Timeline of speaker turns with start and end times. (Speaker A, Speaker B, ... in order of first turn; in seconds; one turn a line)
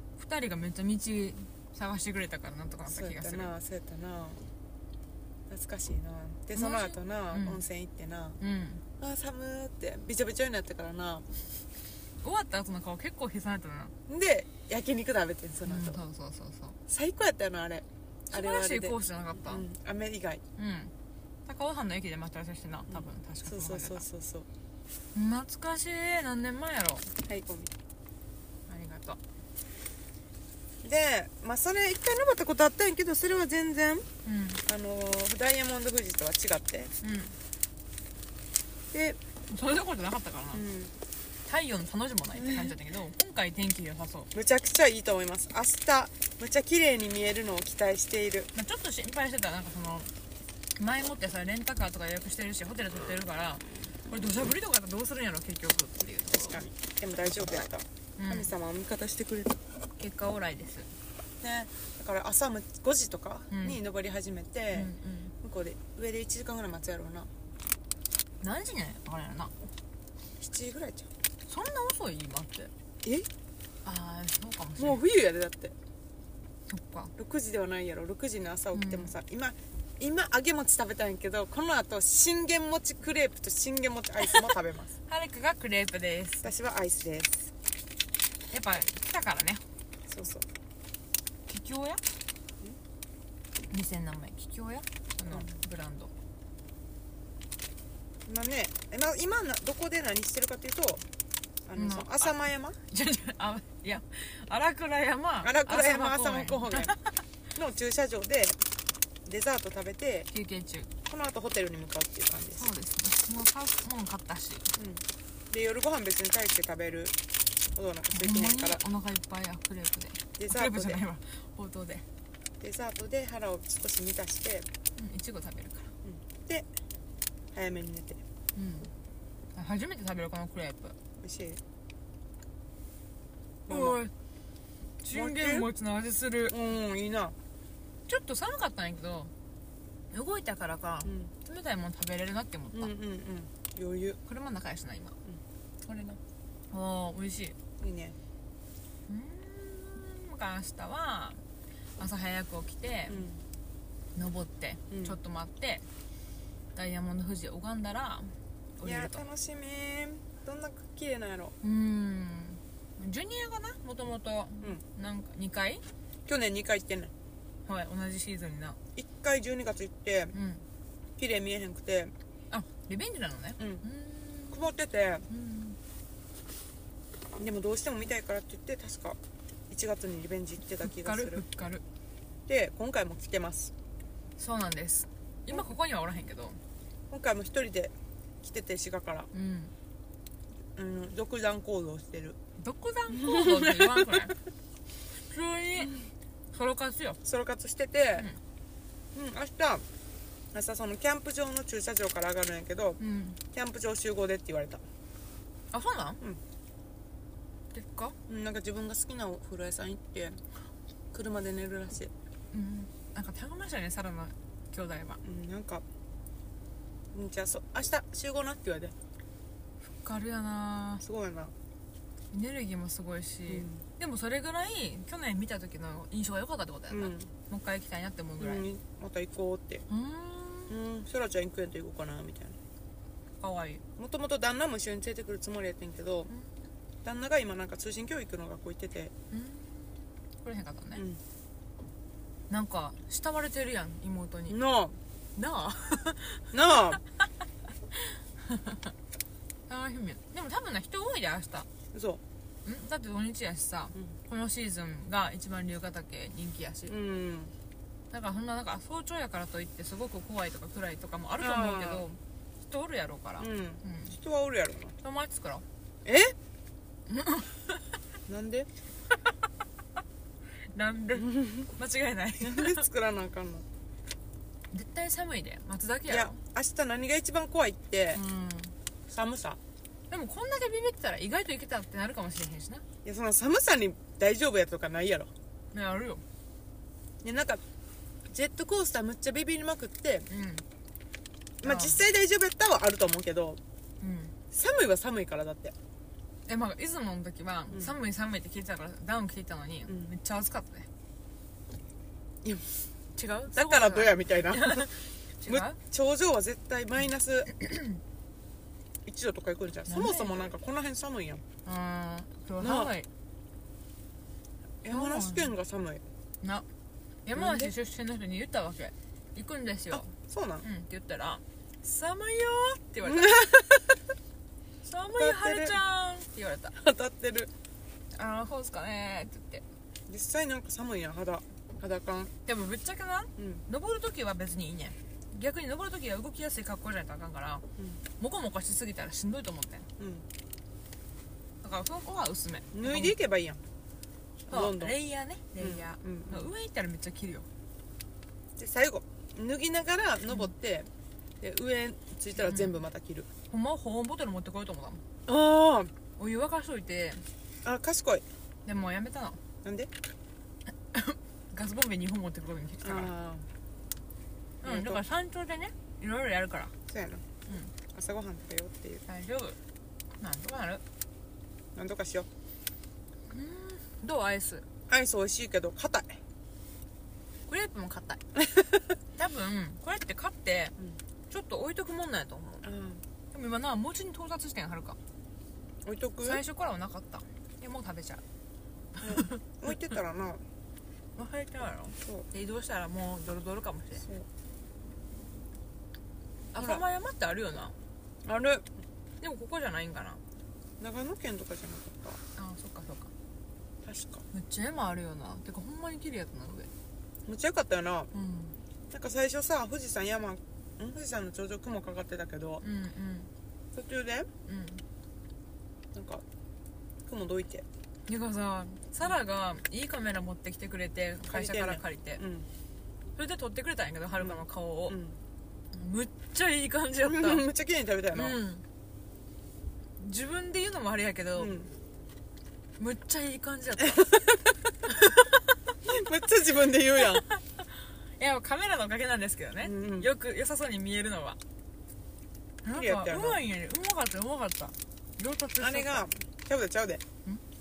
Speaker A: 0.2-3.5
Speaker B: 2.9-4.4
Speaker B: 5.5-8.4
Speaker A: 6.5-7.6
Speaker A: 8.4-8.8
Speaker B: 9.0-11.3
Speaker A: 12.2-13.9
Speaker B: 14.1-16.0
Speaker A: 15.7-16.8
Speaker B: 16.9-20.4
Speaker A: 18.3-19.6
Speaker A: 20.6-20.9
Speaker A: 21.5-24.1
Speaker B: 22.9-24.5
Speaker A: 25.1-27.1
Speaker B: 27.2-27.7
Speaker A: 28.7-29.2
Speaker B: 30.8-34.1
Speaker A: 34.2-34.6
Speaker B: 34.7-36.9
Speaker A: 37.0-37.4
Speaker B: 38.9-39.2
Speaker A: 39.5-40.6
Speaker B: 40.5-40.9
Speaker A: 41.5-44.3
Speaker B: 44.3-48.5
Speaker A: 48.5-50.1
Speaker A: 50.8-56.6
Speaker B: 56.4-59.6
Speaker A: 58.2-58.5
Speaker A: 60.0-60.9
Speaker B: 61.4-64.9
Speaker A: 63.5-63.8
Speaker A: 64.7-65.3
Speaker B: 65.4-67.3
Speaker A: 68.4-69.5
Speaker B: 70.4-71.1
Speaker A: 71.5-72.7
Speaker A: 73.8-75.0
Speaker B: 74.8-75.8
Speaker A: 76.7-77.1
Speaker B: 77.2-84.9
Speaker A: 78.7-79.1
Speaker A: 85.1-86.5
Speaker B: 86.4-87.5
Speaker A: 88.5-89.6
Speaker B: 90.1-90.5
Speaker A: 91.5-92.0
Speaker A: 93.7-96.1
Speaker B: 98.3-101.0
Speaker B: 101.7-102.8
Speaker A: 101.8-102.4
Speaker A: 102.9-107.2
Speaker B: 105.4-107.0
Speaker B: 107.5-108.6
Speaker B: 109.3-110.3
Speaker A: 110.3-110.9
Speaker B: 111.1-112.7
Speaker A: 112.5-114.7
Speaker B: 114.8-117.2
Speaker B: 117.8-118.8
Speaker A: 118.1-122.0
Speaker B: 120.4-121.0
Speaker B: 122.6-124.7
Speaker A: 125.0-125.9
Speaker B: 126.0-126.7
Speaker B: 127.5-128.2
Speaker A: 128.6-128.9
Speaker A: 129.5-131.0
Speaker B: 131.2-131.6
Speaker B: 133.7-134.0
Speaker A: 133.7-134.1
Speaker A: 135.0-136.6
Speaker B: 135.1-135.7
Speaker B: 136.5-137.3
Speaker A: 138.1-139.3
Speaker A: 140.1-142.9
Speaker B: 141.1-141.3
Speaker B: 142.7-144.2
Speaker A: 144.3-145.2
Speaker A: 145.9-146.2
Speaker A: 146.7-147.6
Speaker B: 147.8-148.2
Speaker A: 149.1-151.4
Speaker A: 152.0-153.2
Speaker B: 153.1-153.4
Speaker A: 154.2-155.8
Speaker B: 154.9-155.2
Speaker A: 156.8-159.2
Speaker B: 158.8-161.6
Speaker A: 161.6-165.8
Speaker B: 166.3-167.1
Speaker A: 167.7-168.8
Speaker B: 169.0-170.3
Speaker A: 170.3-170.7
Speaker B: 171.2-172.1
Speaker A: 172.5-174.6
Speaker B: 173.6-173.8
Speaker B: 174.5-175.3
Speaker A: 175.3-175.8
Speaker B: 177.4-179.2
Speaker B: 179.7-181.4
Speaker A: 180.8-181.8
Speaker B: 182.5-183.7
Speaker A: 184.4-186.6
Speaker B: 187.1-189.3
Speaker A: 189.3-189.7
Speaker B: 190.8-192.4
Speaker A: 192.6-194.4
Speaker B: 193.2-194.2
Speaker A: 195.2-195.9
Speaker A: 196.5-197.2
Speaker B: 197.2-198.3
Speaker B: 199.2-199.8
Speaker B: 200.5-203.0
Speaker A: 203.0-203.4
Speaker B: 203.5-204.8
Speaker A: 205.7-206.2
Speaker A: 207.7-208.2
Speaker B: 208.3-210.4
Speaker B: 211.1-212.1
Speaker A: 212.5-215.2
Speaker B: 215.2-215.8
Speaker B: 217.1-218.9
Speaker A: 220.0-221.0
Speaker B: 221.0-221.5
Speaker A: 222.3-228.7
Speaker B: 223.5-223.8
Speaker B: 226.9-227.3
Speaker B: 228.4-229.9
Speaker A: 229.9-230.8
Speaker B: 230.7-232.6
Speaker A: 233.4-233.8
Speaker B: 234.0-236.3
Speaker B: 237.0-239.1
Speaker A: 239.3-241.0
Speaker B: 240.9-241.2
Speaker A: 242.5-244.6
Speaker B: 244.5-245.0
Speaker A: 245.3-246.5
Speaker B: 246.5-247.0
Speaker A: 247.9-248.9
Speaker A: 249.7-251.7
Speaker B: 251.9-252.2
Speaker A: 252.7-256.9
Speaker B: 256.9-257.5
Speaker A: 258.1-264.2
Speaker B: 261.4-262.1
Speaker B: 263.4-264.9
Speaker A: 265.0-265.6
Speaker B: 266.1-266.4
Speaker A: 267.1-267.8
Speaker B: 268.3-268.7
Speaker A: 270.7-272.8
Speaker B: 271.2-271.7
Speaker B: 272.4-273.6
Speaker A: 274.7-276.4
Speaker B: 276.1-278.2
Speaker A: 278.1-278.8
Speaker B: 279.1-279.6
Speaker A: 280.1-282.8
Speaker B: 283.0-285.3
Speaker A: 285.7-286.2
Speaker B: 287.2-287.6
Speaker B: 288.3-290.3
Speaker A: 290.3-290.6
Speaker B: 291.6-293.6
Speaker A: 291.6-292.0
Speaker A: 294.0-294.4
Speaker B: 294.5-295.8
Speaker A: 296.5-300.9
Speaker B: 302.4-302.8
Speaker A: 303.1-305.8
Speaker B: 303.5-304.9
Speaker B: 305.5-307.5
Speaker B: 309.1-311.4
Speaker A: 309.9-310.5
Speaker A: 311.6-313.1
Speaker B: 312.6-312.9
Speaker B: 314.8-316.0
Speaker A: 314.9-315.5
Speaker A: 316.4-316.7
Speaker A: 317.2-320.1
Speaker B: 317.4-317.7
Speaker B: 320.1-320.6
Speaker A: 320.6-323.5
Speaker B: 323.0-324.0
Speaker A: 324.8-326.8
Speaker B: 325.2-325.8
Speaker B: 326.8-327.5
Speaker A: 328.1-329.6
Speaker B: 330.1-332.3
Speaker A: 332.5-337.6
Speaker B: 333.4-333.6
Speaker A: 338.2-339.9
Speaker B: 340.0-340.3
Speaker A: 341.6-343.1
Speaker B: 342.7-343.6
Speaker B: 344.5-344.9
Speaker A: 344.5-347.5
Speaker B: 345.6-346.5
Speaker B: 348.6-350.9
Speaker B: 351.4-353.3
Speaker A: 352.4-352.8
Speaker A: 353.5-355.0
Speaker B: 355.3-355.9
Speaker A: 356.2-357.3
Speaker B: 357.6-358.2
Speaker A: 358.6-359.4
Speaker B: 359.6-359.9
Speaker A: 360.9-363.1
Speaker B: 362.8-363.5
Speaker A: 364.6-366.7
Speaker B: 364.6-365.0
Speaker B: 366.9-367.2
Speaker A: 367.5-367.7
Speaker B: 367.9-369.0
Speaker A: 369.1-369.6
Speaker A: 370.2-370.8
Speaker B: 371.8-372.3
Speaker A: 373.3-374.7
Speaker B: 374.9-376.2
Speaker A: 377.5-378.2
Speaker A: 379.2-380.8
Speaker A: 381.3-382.6
Speaker B: 382.6-383.0
Speaker A: 383.3-385.0
Speaker B: 385.9-386.4
Speaker A: 386.2-388.2
Speaker A: 389.0-389.4
Speaker B: 389.0-390.4
Speaker A: 391.2-394.1
Speaker B: 394.0-394.3
Speaker A: 396.5-397.8
Speaker B: 396.6-396.8
Speaker B: 398.2-398.7
Speaker A: 399.2-400.2
Speaker B: 400.8-402.2
Speaker A: 402.4-403.1
Speaker B: 403.9-404.2
Speaker A: 404.3-406.7
Speaker B: 407.3-408.1
Speaker A: 408.1-408.6
Speaker B: 408.9-412.6
Speaker A: 412.6-413.3
Speaker B: 413.8-414.3
Speaker A: 414.5-414.8
Speaker B: 415.9-416.2
Speaker B: 417.1-417.6
Speaker A: 418.1-422.2
Speaker B: 421.3-422.5
Speaker A: 423.2-425.0
Speaker B: 424.2-425.2
Speaker A: 425.7-427.4
Speaker B: 427.0-428.4
Speaker A: 428.1-428.6
Speaker A: 430.0-431.6
Speaker B: 431.4-431.7
Speaker A: 432.8-434.2
Speaker A: 434.9-435.4
Speaker B: 435.9-437.2
Speaker A: 437.1-441.4
Speaker B: 439.6-440.1
Speaker A: 442.6-446.1
Speaker B: 442.7-443.4
Speaker B: 445.6-447.0